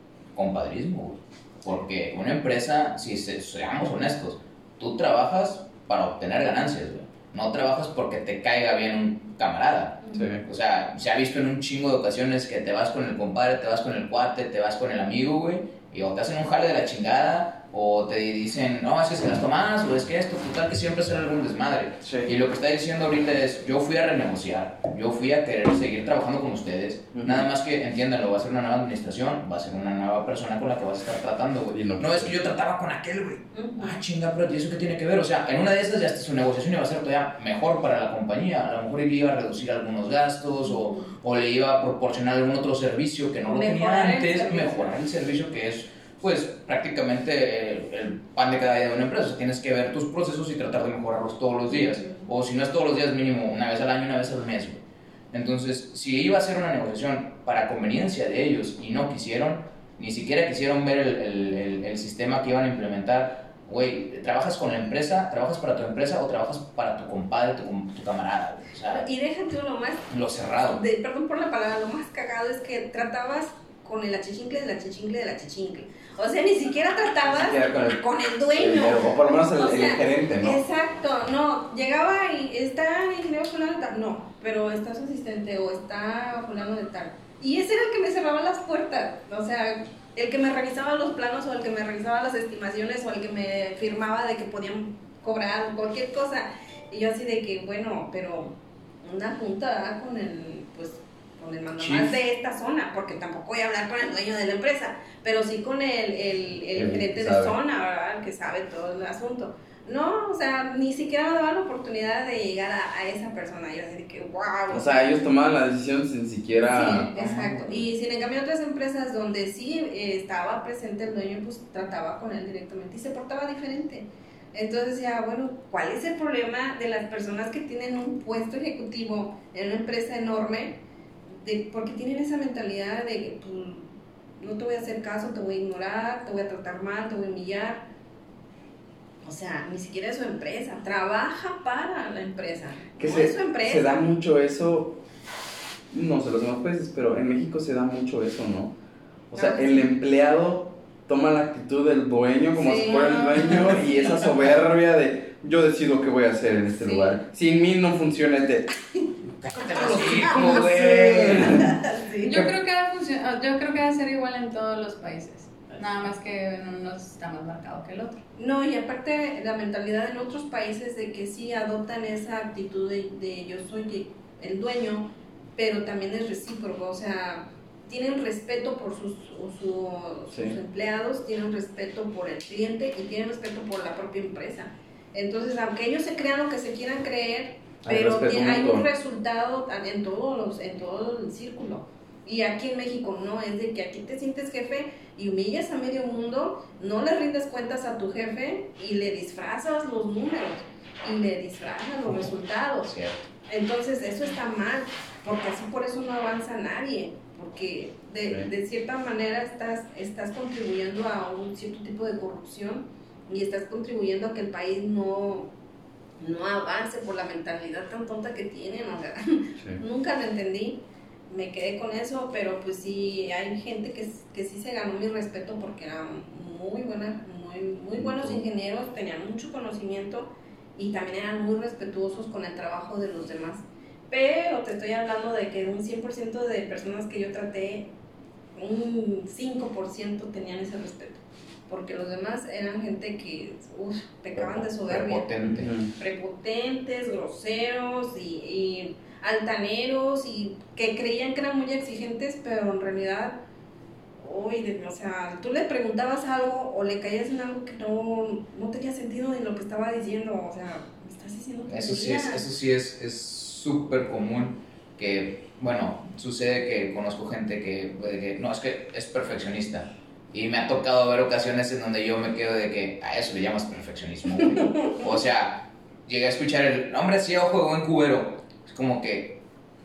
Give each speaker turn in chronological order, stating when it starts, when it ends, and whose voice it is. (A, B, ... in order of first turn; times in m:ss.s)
0:00.3-0:54.8 A
0:10.1-0:10.4 B
0:22.0-0:22.3 B
0:27.1-0:27.5 B
0:31.7-0:32.4 B
0:33.5-0:34.0 C
0:40.6-0:41.1 C
0:43.5-0:44.9 C
0:51.7-0:52.2 C
0:55.3-1:09.0 A
1:08.9-1:10.1 C
1:10.1-1:10.8 A
1:10.6-1:55.4 C
1:17.3-1:18.0 B
1:18.5-1:20.6 B
1:41.8-1:42.1 A
1:46.8-1:47.6 B
1:54.7-1:57.1 B
1:56.6-2:10.8 C
1:56.8-1:57.9 A
2:11.4-2:17.9 C
2:19.2-2:24.1 C
2:23.0-2:25.0 B
2:25.9-2:28.7 B
2:29.3-2:38.7 B
2:29.3-2:29.9 C
2:32.6-2:34.3 C
2:36.8-2:37.2 C
2:39.4-2:41.7 A
2:39.6-2:42.5 C
2:41.1-2:41.7 B
2:42.2-2:48.2 D
2:48.4-3:35.5 C
3:00.3-3:00.6 B
3:07.8-3:08.9 B
3:22.8-3:23.2 A
3:36.2-3:57.9 C
3:48.0-3:48.4 B
3:58.6-4:05.3 C
4:04.4-4:05.8 A
4:05.4-4:05.9 B
4:06.0-4:13.4 C
4:14.2-4:22.4 C
4:21.7-4:39.4 A
4:34.4-4:35.0 C